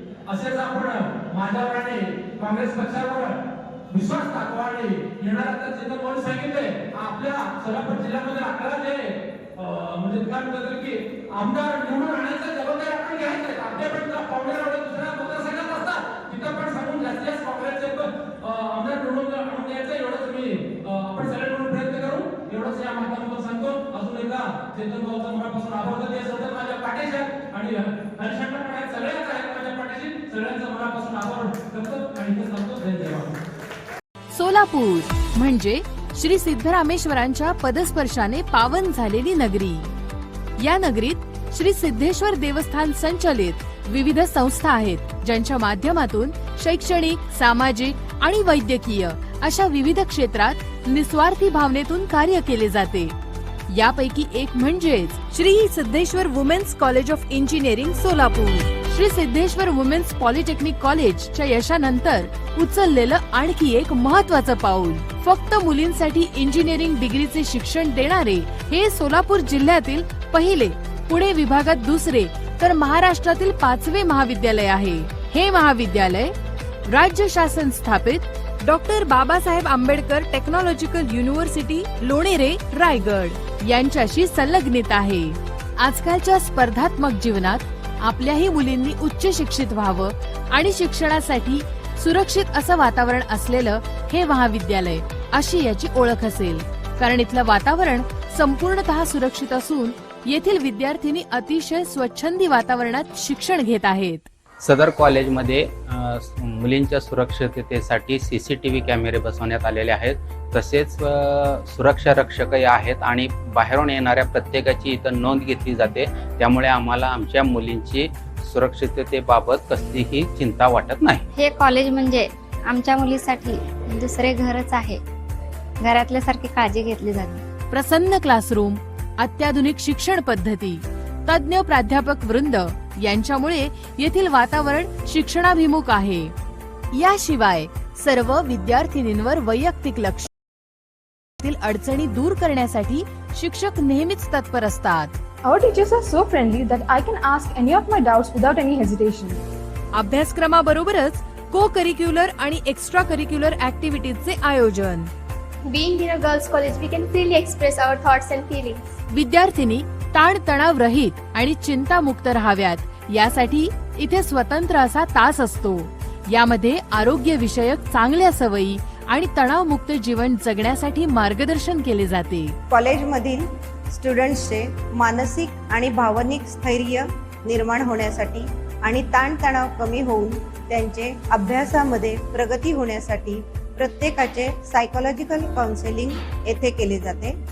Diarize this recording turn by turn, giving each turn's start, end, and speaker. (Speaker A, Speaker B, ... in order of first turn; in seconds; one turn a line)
Speaker A: 0.3-3.4
Speaker A: 3.9-33.3
Speaker B: 34.3-39.9
Speaker B: 40.6-53.1
Speaker B: 53.7-76.3
Speaker B: 76.9-104.3
Speaker C: 104.6-121.2
Speaker D: 121.3-125.0
Speaker D: 125.8-127.4
Speaker B: 127.7-136.3
Speaker B: 136.9-140.3
Speaker B: 141.4-145.2
Speaker E: 145.4-149.4
Speaker B: 149.9-155.1
Speaker F: 155.7-158.8
Speaker B: 159.1-172.6
Speaker G: 172.7-187.3